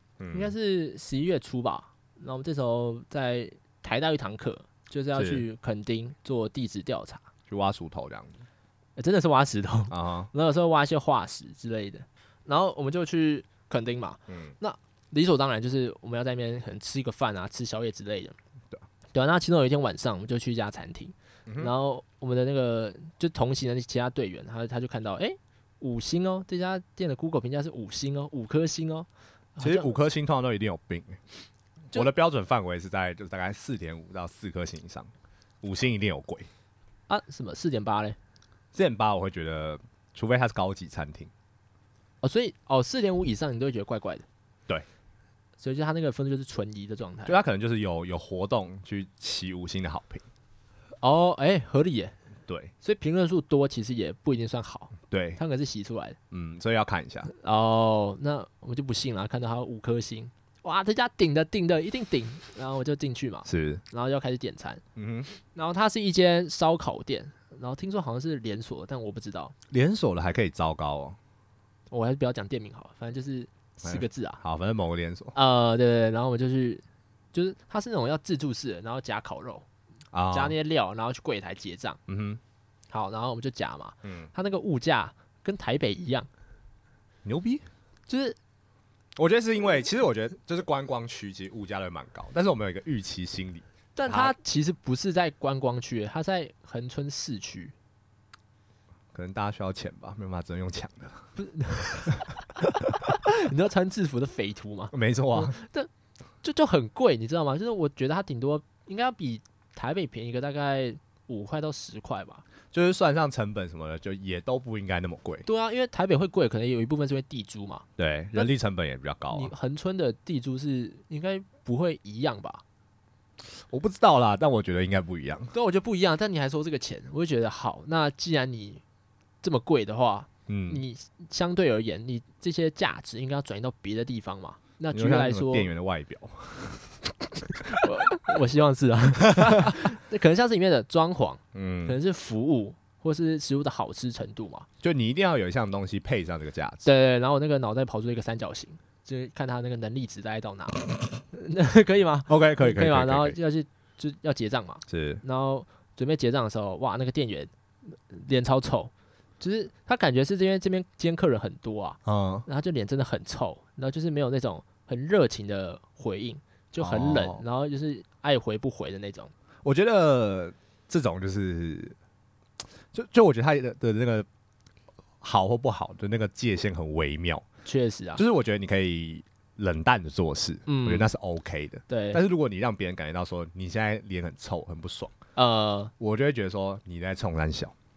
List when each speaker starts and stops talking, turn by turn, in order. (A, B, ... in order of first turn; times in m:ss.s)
0:00.2-0:00.5 A
0:00.3-0:07.2 B
0:05.1-0:05.4 A
0:07.5-0:08.4 A
0:09.0-0:18.4 B
0:09.9-0:10.3 A
0:14.3-0:14.5 A
0:19.1-0:29.9 B
0:21.5-0:21.7 A
0:29.6-0:31.2 A
0:31.9-0:35.1 A
0:35.6-0:36.5 A
0:37.1-0:38.2 B
0:38.7-0:41.3 A
0:42.2-0:44.2 B
0:45.6-0:47.4 B
0:47.3-0:50.2 A
0:51.0-0:52.2 B
0:52.5-0:52.7 A
0:52.8-0:56.2 B
0:55.1-0:55.4 A
0:56.3-0:57.3 A
0:57.3-1:04.8 B
1:03.5-1:03.8 A
1:05.0-1:05.3 A
1:05.4-1:09.5 B
1:09.7-1:11.2 A
1:11.9-1:14.4 B
1:13.8-1:15.4 A
1:15.4-1:19.6 B
1:20.1-1:20.6 A
1:20.3-1:22.0 B
1:22.1-1:22.4 A
1:22.9-1:26.3 B
1:24.0-1:24.3 A
1:27.2-1:27.6 A
1:28.1-1:28.4 B
1:29.2-1:34.4 A
1:34.0-1:37.7 B
1:39.1-1:41.2 A
1:41.4-1:45.9 B
1:44.9-1:45.6 A
1:46.4-1:52.4 B
1:52.7-1:55.5 A
1:55.5-1:58.5 B
1:58.0-1:59.5 A
1:59.3-2:02.6 B
2:03.6-2:05.5 A
2:05.5-2:08.8 B
2:09.4-2:15.7 B
2:10.5-2:10.8 A
2:14.9-2:17.9 A
2:17.6-2:24.7 B
2:19.4-2:19.7 A
2:21.5-2:22.0 A
2:24.8-2:26.9 A
2:26.8-2:49.3 B
2:32.3-2:33.4 A
2:34.9-2:35.2 A
2:42.1-2:42.4 A
2:46.8-2:47.4 A
2:49.6-2:52.0 A
2:52.9-2:54.3 A
2:55.2-2:57.4 A
2:57.6-2:58.2 B
2:58.2-3:05.2 A
3:00.7-3:01.1 B
3:01.9-3:02.2 B
3:05.4-3:05.9 B
3:06.0-3:07.7 A